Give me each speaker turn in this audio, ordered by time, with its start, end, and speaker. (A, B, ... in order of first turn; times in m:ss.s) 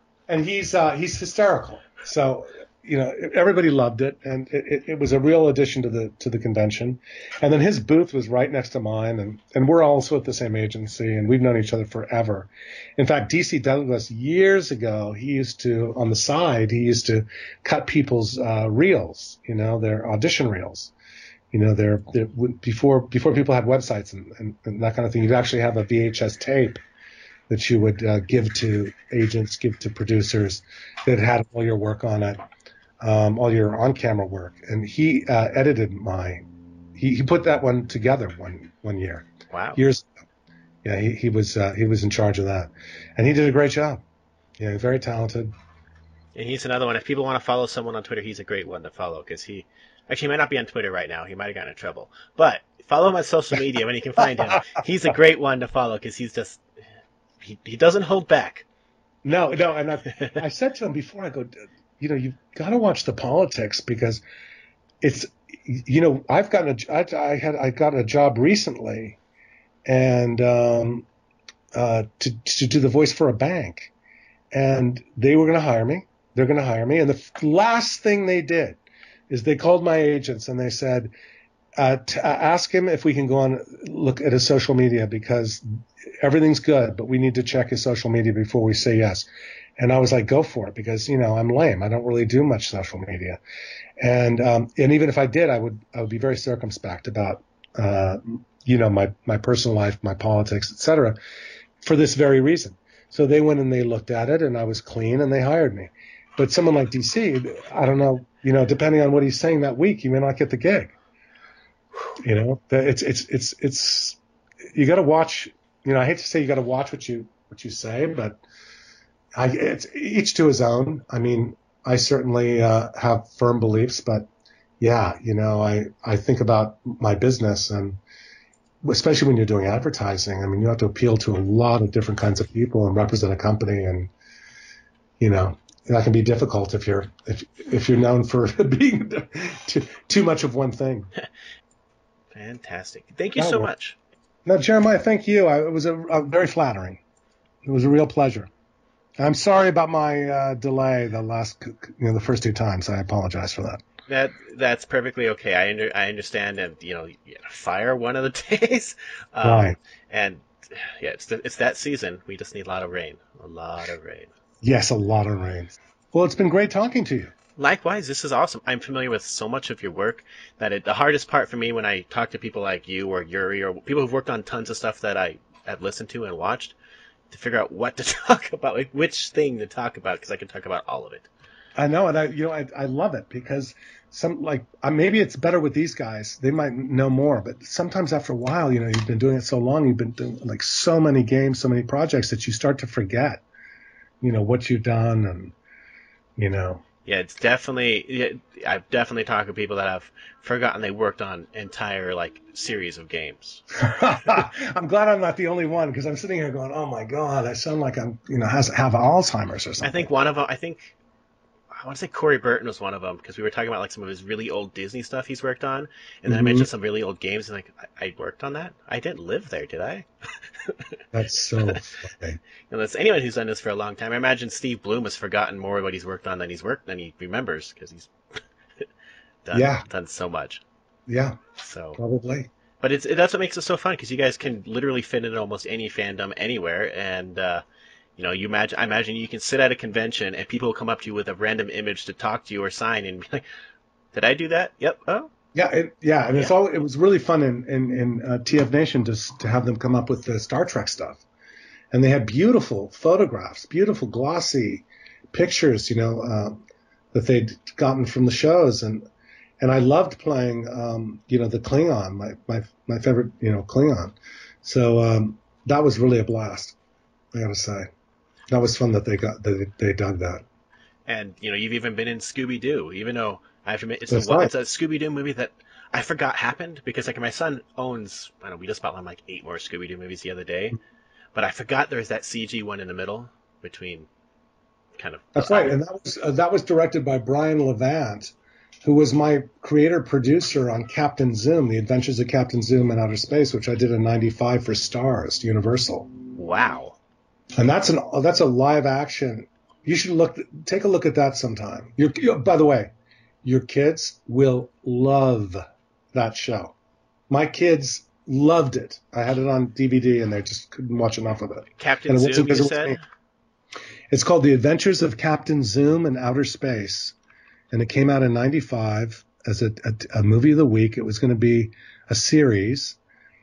0:00.3-0:20.9 A
0:21.5-0:26.8 A
0:27.5-0:32.4 A
0:33.0-0:40.1 A
0:39.5-0:39.8 B
0:40.8-0:44.0 A
0:44.6-0:45.5 A
0:46.4-0:56.6 B
0:57.4-0:58.6 B
0:59.2-1:04.2 A
1:05.0-1:09.2 A
1:09.9-1:11.1 A
1:11.7-1:13.9 A
1:14.5-1:21.1 A
1:21.8-1:33.4 A
1:34.0-1:41.2 A
1:41.8-1:51.0 A
1:52.2-1:54.2 A
1:54.7-1:58.4 A
1:59.4-2:04.3 A
2:04.8-2:08.0 A
2:08.8-2:14.1 A
2:15.2-2:21.1 A
2:22.3-2:24.0 B
2:23.4-2:23.7 A
2:24.4-2:27.0 A
2:27.6-2:28.5 A
2:29.2-2:33.8 A
2:34.1-2:44.3 B
2:39.4-2:39.8 A
2:44.6-2:47.3 A
2:47.6-2:56.8 B
2:57.3-3:01.3 B
3:01.8-3:13.4 A
3:14.2-3:15.6 A
3:16.4-3:16.8 A
3:17.1-3:24.4 B
3:23.8-3:30.1 A
3:29.8-3:31.0 B
3:31.8-3:40.8 B
3:36.3-3:36.7 A
3:41.1-3:42.4 A
3:42.7-3:48.8 B
3:49.4-3:50.6 B
3:49.5-3:49.8 A
3:51.1-3:51.4 A
3:51.6-3:52.0 B
3:52.0-3:52.5 A
3:52.8-3:57.6 B
3:58.2-4:03.4 B
4:04.1-4:05.3 B
4:05.5-4:11.2 A
4:11.9-4:16.6 A
4:17.1-4:19.0 A
4:19.6-4:26.8 A
4:27.3-4:27.9 A
4:28.5-4:30.4 A
4:31.1-4:40.8 B
4:34.1-4:34.5 A
4:41.4-4:44.1 B
4:45.0-4:45.8 B
4:45.4-4:56.1 A
4:56.4-4:57.0 B
4:57.6-5:02.9 A
5:03.4-5:06.8 A
5:07.3-5:13.0 A
5:11.8-5:13.0 B
5:14.1-5:17.2 A
5:17.7-5:23.0 A